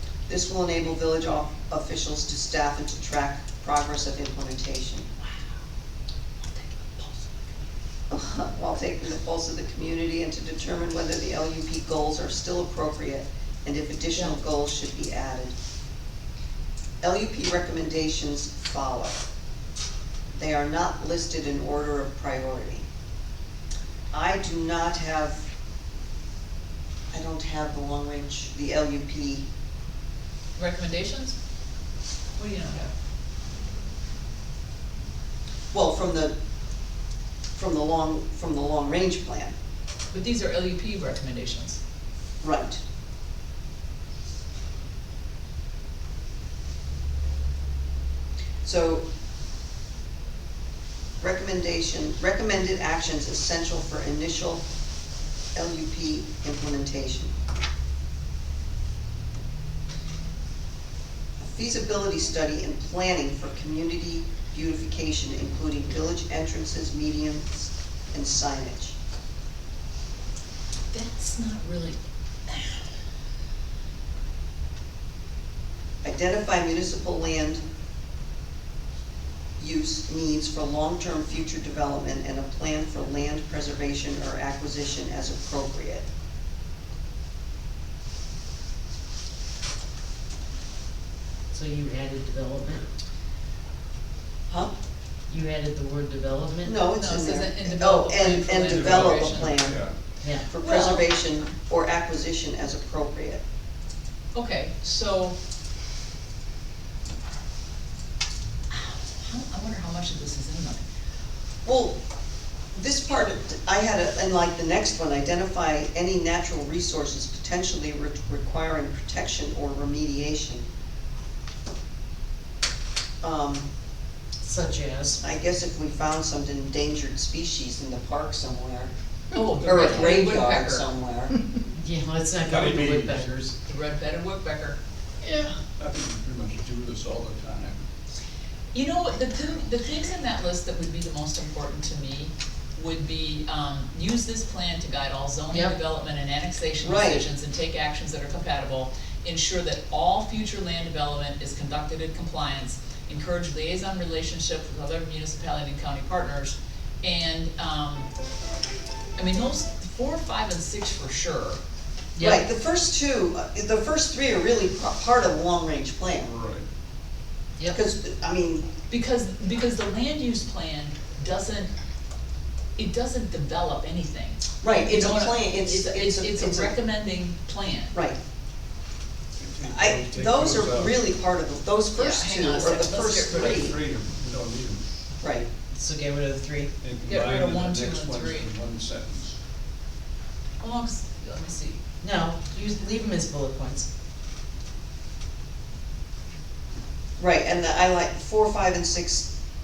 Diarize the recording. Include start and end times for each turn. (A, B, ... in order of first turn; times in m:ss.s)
0:00.3-0:05.1 A
0:06.4-0:07.4 B
0:08.1-0:15.5 A
0:17.0-0:19.2 A
0:20.3-0:22.8 A
0:24.1-0:25.4 A
0:27.1-0:29.4 A
0:30.6-0:31.3 B
0:32.4-0:32.9 B
0:35.7-0:36.3 A
0:37.5-0:39.5 A
0:40.1-0:41.8 B
0:42.4-0:42.8 A
0:48.6-0:49.0 A
0:51.2-0:54.6 A
0:55.5-0:57.3 A
1:01.4-1:09.0 A
1:10.9-1:12.8 B
1:16.0-1:17.6 A
1:19.6-1:26.0 A
1:31.5-1:32.9 C
1:35.3-1:36.7 C
1:36.6-1:39.8 A
1:37.0-1:39.6 B
1:38.5-1:39.9 D
1:40.2-1:40.5 C
1:40.5-1:43.4 A
1:40.6-1:41.1 B
1:44.3-1:45.4 B
1:48.7-1:50.8 B
1:51.6-1:52.0 A
1:52.7-2:00.6 A
2:03.2-2:03.7 A
2:04.4-2:05.2 C
2:05.2-2:08.9 A
2:09.3-2:10.9 B
2:09.6-2:11.3 A
2:11.7-2:13.5 C
2:12.4-2:13.3 D
2:13.6-2:14.8 B
2:15.8-2:17.8 D
2:18.7-2:38.1 B
2:25.5-2:25.7 C
2:26.8-2:27.2 A
2:39.2-2:41.6 B
2:42.2-2:42.4 B
2:42.2-2:46.3 A
2:46.2-2:46.6 D
2:47.7-2:48.7 A
2:48.9-2:51.7 B
2:52.8-2:57.9 B
2:54.6-2:56.7 A
2:57.9-2:58.2 A
2:59.4-3:01.0 D
2:59.6-3:03.8 A
3:02.0-3:03.7 B
3:03.3-3:04.9 D
3:05.2-3:05.5 A
3:05.7-3:06.7 C
3:06.8-3:09.4 D
3:07.1-3:08.5 B
3:10.6-3:11.8 B
3:12.0-3:13.9 C
3:17.2-3:19.3 A